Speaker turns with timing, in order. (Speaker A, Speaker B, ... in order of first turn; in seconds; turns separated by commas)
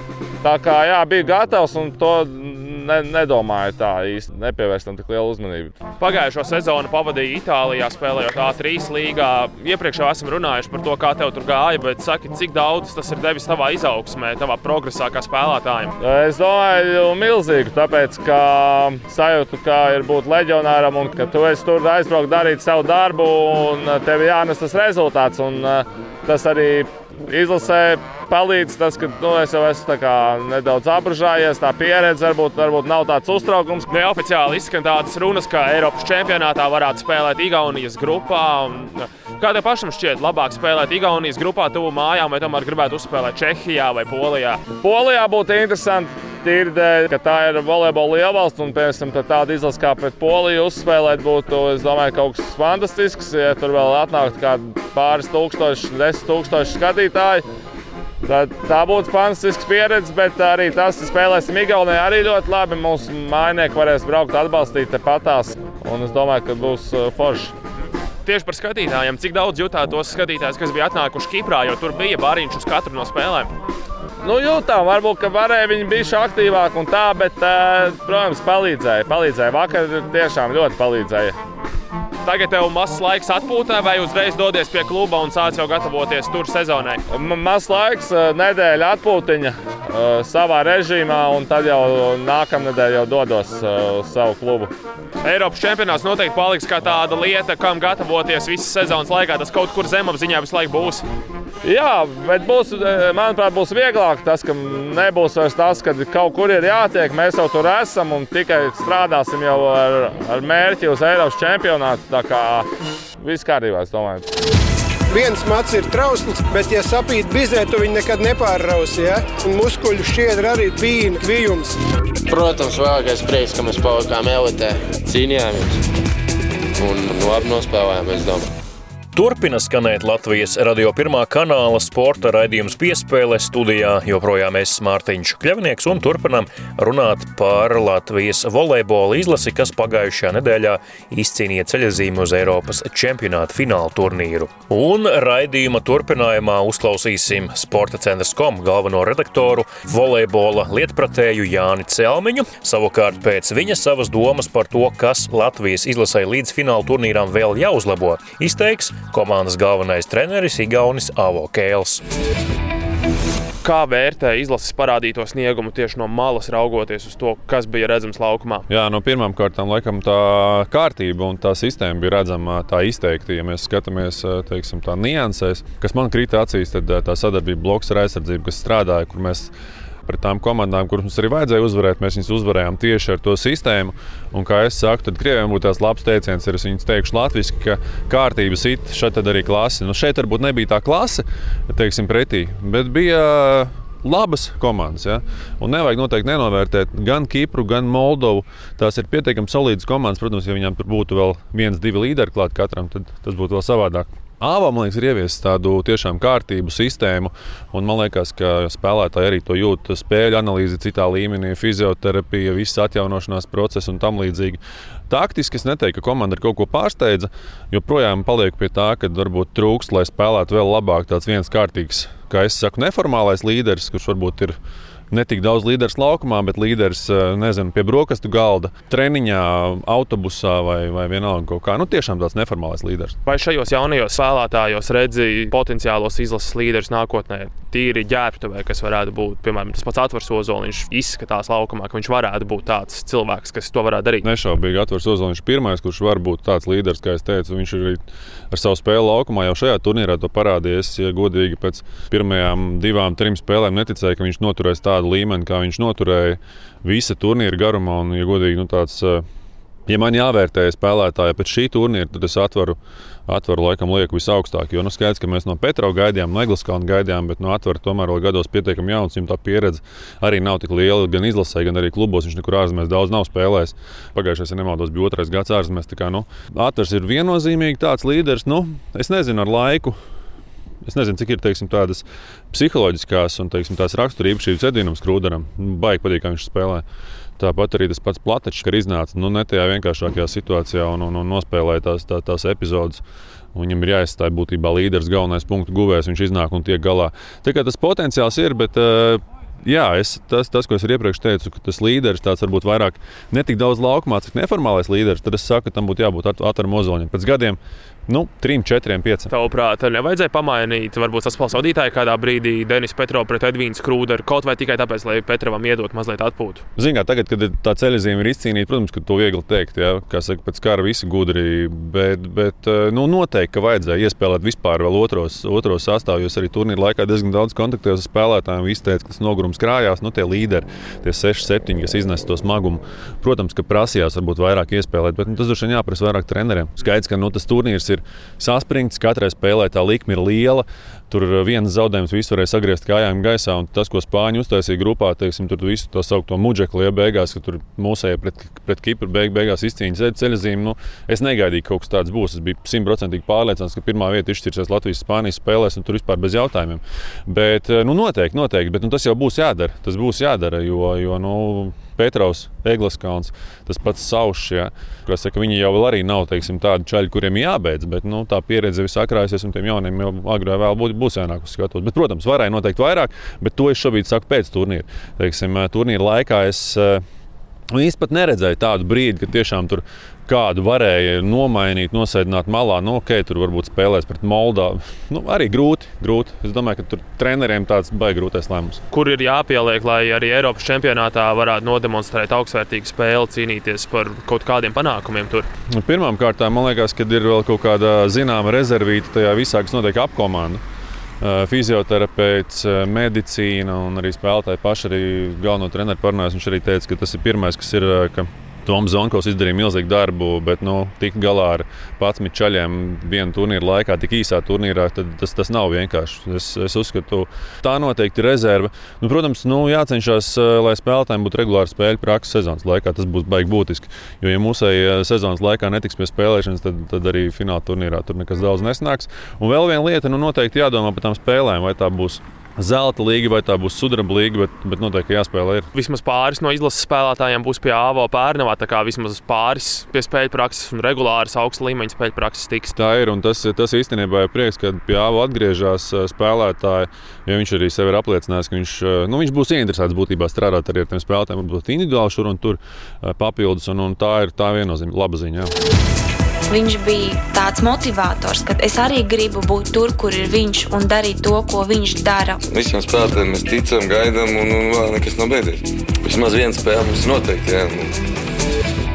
Speaker A: 0.4-5.8, Speaker B: 6.0-15.9, Speaker A: 16.0-33.9, Speaker B: 33.9-44.7, Speaker A: 44.7-57.4, Speaker A: 58.2-67.5, Speaker B: 68.2-73.5, Speaker A: 74.2-81.3, Speaker B: 82.2-87.0, Speaker A: 87.1-94.7, Speaker B: 95.2-101.0, Speaker A: 101.6-112.7, Speaker A: 113.2-114.2, Speaker C: 115.1-121.8, Speaker D: 122.3-125.8, Speaker D: 126.8-128.4, Speaker E: 129.1-162.0, Speaker B: 163.6-168.7, Speaker F: 168.7-179.5, Speaker F: 180.0-224.6, Speaker F: 225.1-233.1, Speaker B: 233.2-244.2, Speaker F: 244.2-259.2, Speaker F: 259.9-280.0, Speaker F: 280.8-286.8, Speaker F: 287.4-293.0, Speaker F: 293.5-309.3, Speaker B: 309.3-316.6, Speaker F: 316.8-377.0, Speaker F: 377.7-388.8, Speaker B: 388.9-395.5, Speaker F: 395.7-400.6, Speaker F: 401.2-435.7, Speaker B: 435.7-442.7, Speaker F: 442.8-455.5, Speaker G: 456.5-462.4, Speaker H: 462.4-467.9